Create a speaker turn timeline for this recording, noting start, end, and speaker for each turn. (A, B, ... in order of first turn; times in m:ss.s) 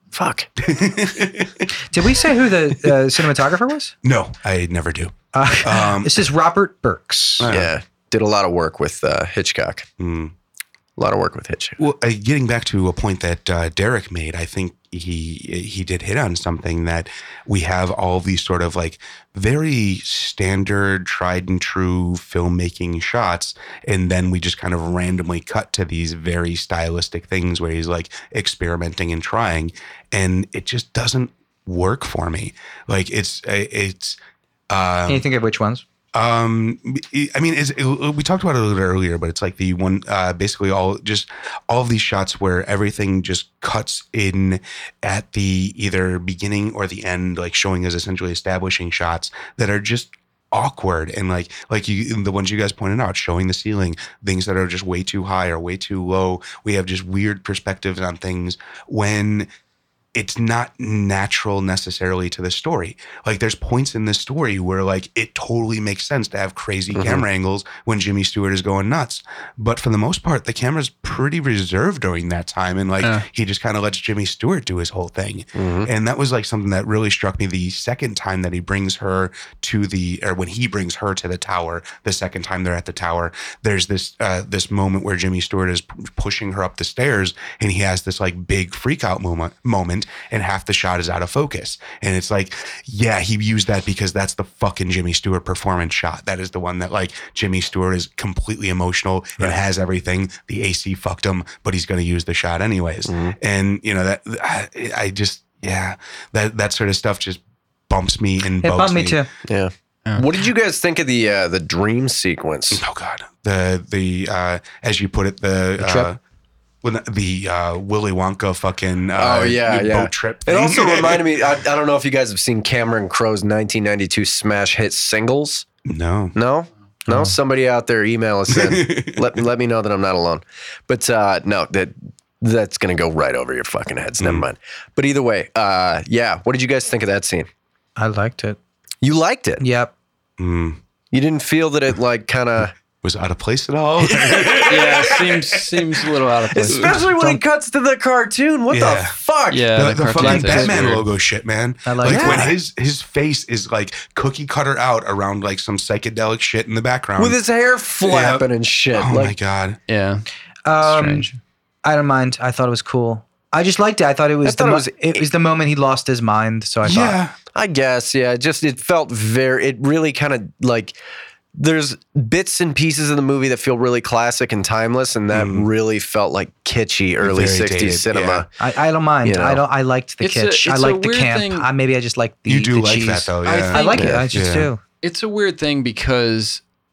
0:00.1-0:00.5 A
0:00.6-0:01.7 B
0:01.7-0:03.9 C
0:04.0-0:06.2 B
0:05.3-0:07.5 C
0:07.4-0:07.7 B
0:07.5-0:09.9 A
0:10.0-0:10.3 B
0:11.0-0:11.8 A
0:11.8-0:34.2 B
0:34.7-0:35.3 B
0:35.1-0:35.8 C
0:36.1-0:59.5 B
1:00.1-1:49.2 B
1:06.9-1:07.2 A
1:15.6-1:15.9 A
1:43.1-1:43.4 A
1:48.6-1:49.3 C
1:49.4-1:52.8 A
1:52.7-1:56.2 B
1:55.8-1:56.1 C
1:56.8-2:01.3 B
1:59.2-2:05.7 A
2:05.8-2:06.4 B
2:06.4-2:17.5 A
2:07.1-2:07.4 C
2:08.5-2:09.4 B
2:14.2-2:14.5 B
2:18.0-2:18.6 C
2:19.0-2:19.6 A
2:19.6-2:19.9 C
2:20.4-2:20.8 B
2:21.1-2:22.8 A
2:23.0-2:25.8 B
2:24.0-2:25.2 A
2:24.6-2:27.1 D
2:26.5-2:30.8 A
2:26.7-2:27.0 B
2:27.2-2:27.4 C
2:28.7-2:29.2 B
2:29.5-2:31.1 D
2:29.7-2:37.4 B
2:31.9-2:32.5 C
2:32.0-2:32.5 A
2:37.2-2:39.4 A
2:38.0-2:39.8 B
2:39.9-2:40.2 D
2:40.7-2:47.2 C
2:40.8-2:41.3 D
2:44.4-2:45.3 A
2:46.8-2:47.4 B
2:47.5-2:51.0 A
2:51.6-2:58.5 A
2:55.3-2:55.7 B
2:57.2-2:58.5 B
2:58.6-3:04.8 C
2:59.2-2:59.6 A
3:00.2-3:01.7 D
3:02.5-3:04.7 B
3:03.4-3:04.2 D
3:03.9-3:04.2 A
3:05.0-3:06.6 D